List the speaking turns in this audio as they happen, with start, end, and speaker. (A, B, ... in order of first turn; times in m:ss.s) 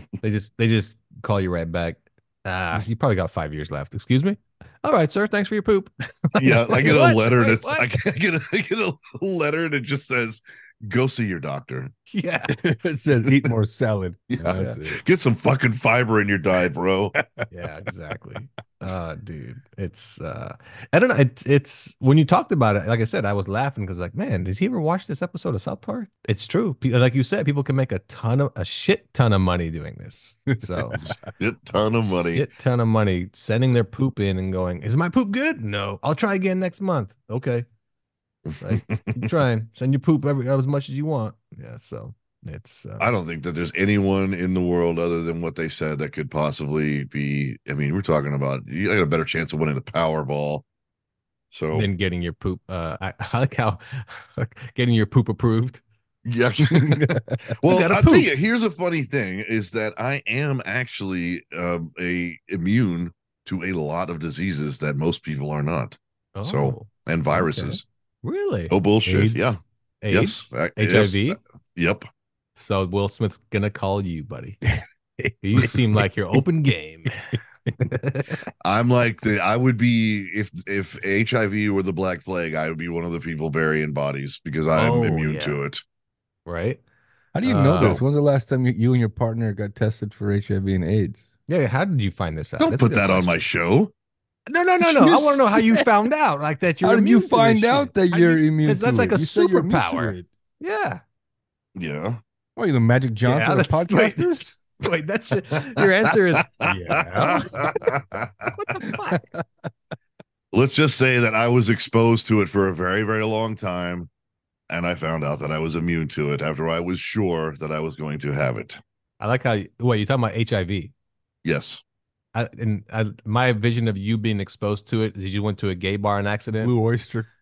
0:00.2-0:07.9 A
0:06.4-0:11.9 B
0:12.1-0:12.5 A
0:12.8-0:15.0 C
0:14.3-0:17.1 B
0:17.2-0:17.5 C
0:17.5-0:31.0 A
0:30.5-0:31.2 C
0:31.4-0:32.4 B
0:32.3-0:37.6 A
0:38.6-0:43.1 A
0:38.7-0:39.2 B
0:43.0-0:50.6 B
0:51.5-0:51.9 B
0:51.7-0:55.8 A
0:56.3-1:07.9 B
0:56.7-0:57.3 C
0:57.6-0:58.4 A
1:06.4-1:11.4 A
1:08.7-1:09.6 B
1:10.1-1:12.1 B
1:12.6-1:14.6 A
1:15.4-1:18.4 A
1:18.6-1:25.8 B
1:24.7-1:25.6 A
1:26.4-1:26.8 A
1:27.3-1:31.3 C
1:27.4-1:28.0 A
1:31.5-1:33.4 A
1:32.6-1:33.9 B
1:34.5-1:41.0 A
1:34.9-1:35.9 C
1:36.8-1:40.3 C
1:41.8-1:42.2 B
1:42.6-1:44.4 C
1:43.2-1:47.6 A
1:46.4-1:48.8 B
1:46.6-1:47.8 C
1:48.6-1:49.2 A
1:48.8-1:49.4 C
1:50.5-1:54.1 B
1:54.7-1:58.8 B
1:59.2-2:00.9 A
2:01.4-2:01.8 B
2:02.3-2:06.7 A
2:06.6-2:07.3 C